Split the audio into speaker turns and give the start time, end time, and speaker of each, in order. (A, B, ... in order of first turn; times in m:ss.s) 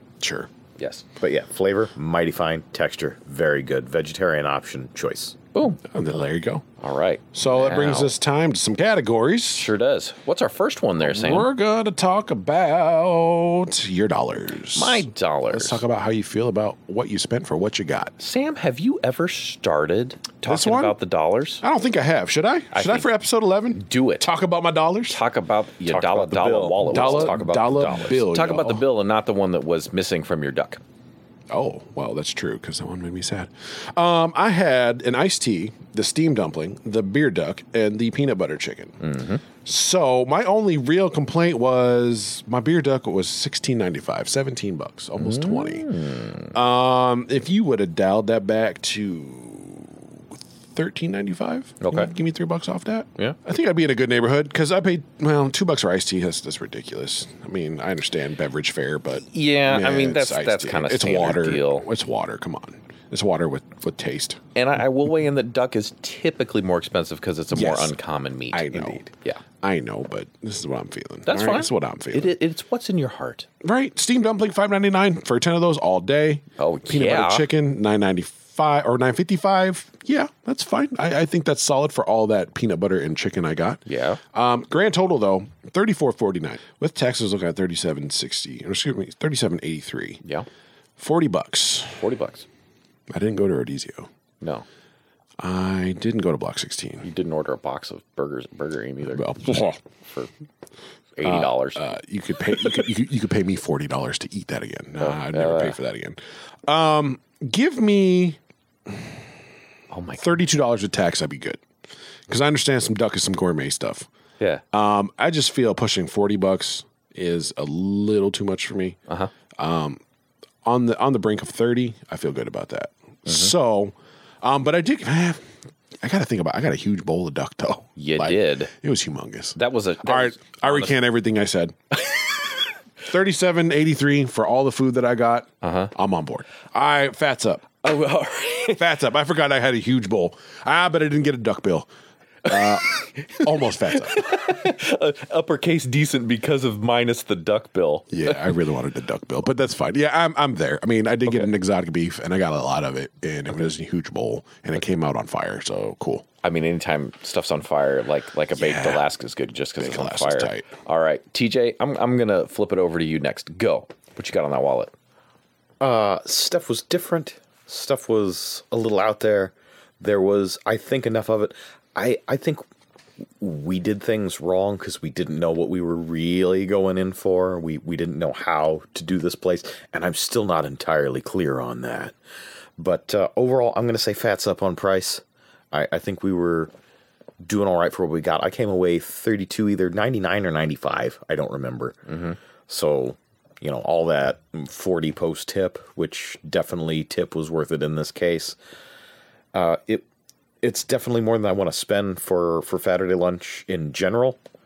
0:00.2-0:00.5 A
0:00.8-0:01.0 B
0:01.2-0:05.4 C
0:05.5-0:05.8 B
0:05.8-0:06.6 A
0:06.8-0:08.1 B
0:07.3-0:09.7 A
0:09.5-0:11.5 B
0:11.0-0:18.1 A
0:14.7-0:15.8 B
0:18.2-0:21.6 B
0:20.4-0:21.0 A
0:21.6-0:25.2 A
0:22.7-0:23.1 B
0:23.7-0:24.3 B
0:25.1-0:30.8 B
0:25.8-0:28.2 C
0:26.9-0:28.8 A
0:31.5-0:39.0 A
0:39.0-0:39.4 B
0:39.6-1:04.4 A
0:45.2-0:46.5 B
0:51.8-0:52.1 B
0:59.3-1:01.9 B
1:04.5-1:09.4 B
1:07.5-1:07.9 A
1:08.5-1:09.1 A
1:09.6-1:12.3 A
1:11.2-1:13.5 B
1:13.6-1:30.2 A
1:16.6-1:17.5 B
1:23.8-1:24.2 B
1:31.0-1:32.0 A
1:32.0-1:32.4 B
1:33.1-1:34.1 A
1:34.4-1:34.6 B
1:35.4-1:37.1 A
1:37.0-1:40.3 B
1:39.1-1:39.8 A
1:41.2-1:41.8 B
1:41.2-1:49.1 A
1:45.0-1:45.8 B
1:49.9-1:50.4 B
1:50.2-1:51.6 A
1:52.3-1:54.1 A
1:54.7-1:59.0 A
1:59.5-2:00.0 A
2:00.6-2:05.4 A
2:06.0-2:11.9 A
2:08.0-2:08.7 B
2:09.6-2:11.0 B
2:13.0-2:17.6 A
2:15.6-2:15.9 B
2:17.8-2:18.8 B
2:18.7-2:21.9 A
2:22.4-2:24.3 A
2:22.5-2:28.4 B
2:28.1-2:36.2 A
2:36.4-2:44.9 B
2:38.5-2:39.1 A
2:39.8-2:40.7 A
2:45.8-2:52.6 C
2:53.4-3:02.1 C
3:02.8-3:06.7 C
3:07.4-3:12.1 C
3:12.1-3:12.4 B
3:12.7-3:18.6 C
3:19.5-3:20.0 C
3:20.6-3:24.4 C